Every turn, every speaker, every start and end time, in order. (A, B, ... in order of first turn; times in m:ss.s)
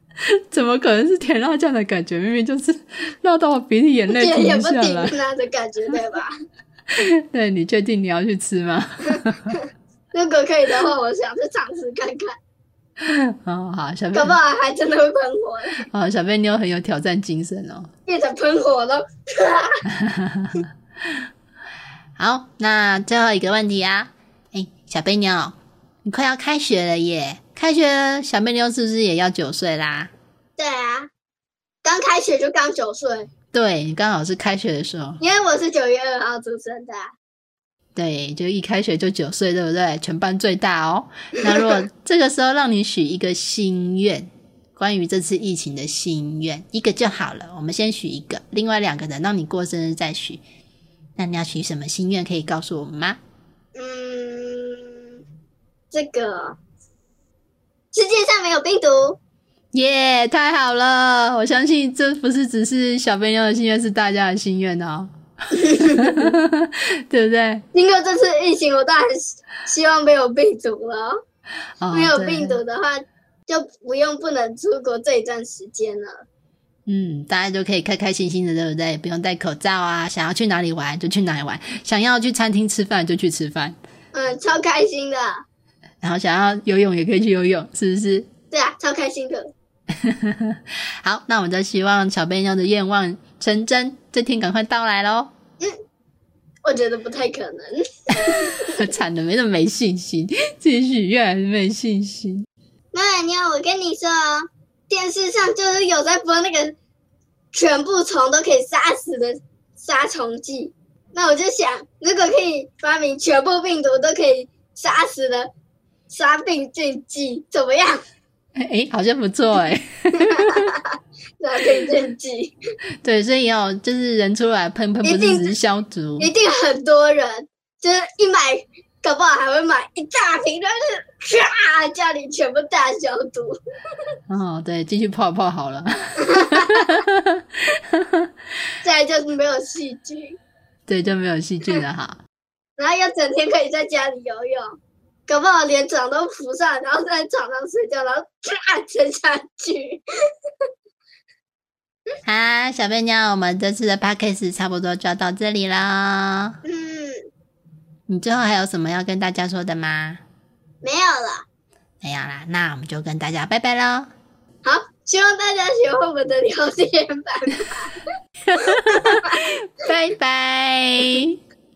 0:00.2-0:05.1 A
0:04.1-0:06.3 B
0:06.9-0:09.6 A
0:10.1-0:12.4 B
0:13.0-0:14.4 A
0:14.1-0:15.8 B
0:15.9-0:17.9 A
0:18.0-0:19.8 B
0:20.0-0:21.2 A
0:22.2-0:30.1 A
0:30.6-0:31.1 B
0:31.8-0:33.3 B
0:33.5-0:35.2 A
0:35.2-0:37.1 B
0:38.0-0:50.4 A
0:51.2-0:53.2 A
0:53.7-0:55.1 B
0:55.9-0:56.6 B
0:57.9-0:59.2 B
0:59.7-1:07.6 A
1:05.5-1:06.3 B
1:07.7-1:11.2 B
1:11.8-1:12.6 A
1:11.9-1:16.2 B
1:16.9-1:23.8 A
1:24.1-1:25.4 B
1:26.0-1:28.3 A
1:28.5-1:29.5 B
1:30.0-1:35.3 A
1:36.6-1:38.8 B
1:38.2-1:42.5 A
1:42.9-1:46.7 B
1:47.5-1:55.5 B
1:56.1-1:58.0 B
1:58.6-2:00.7 A
2:00.2-2:02.5 B
2:03.0-2:06.3 A
2:05.0-2:05.5 B
2:06.2-2:13.6 B
2:14.3-2:18.3 A
2:16.2-2:17.0 B
2:18.8-2:20.4 B
2:20.9-2:22.2 A
2:22.8-2:30.0 B
2:32.2-2:36.6 A
2:36.6-2:37.2 B
2:38.1-2:40.2 A
2:40.8-2:41.4 B
2:42.0-2:44.1 A
2:44.6-2:47.9 B
2:48.5-2:51.4 A
2:48.6-2:49.4 B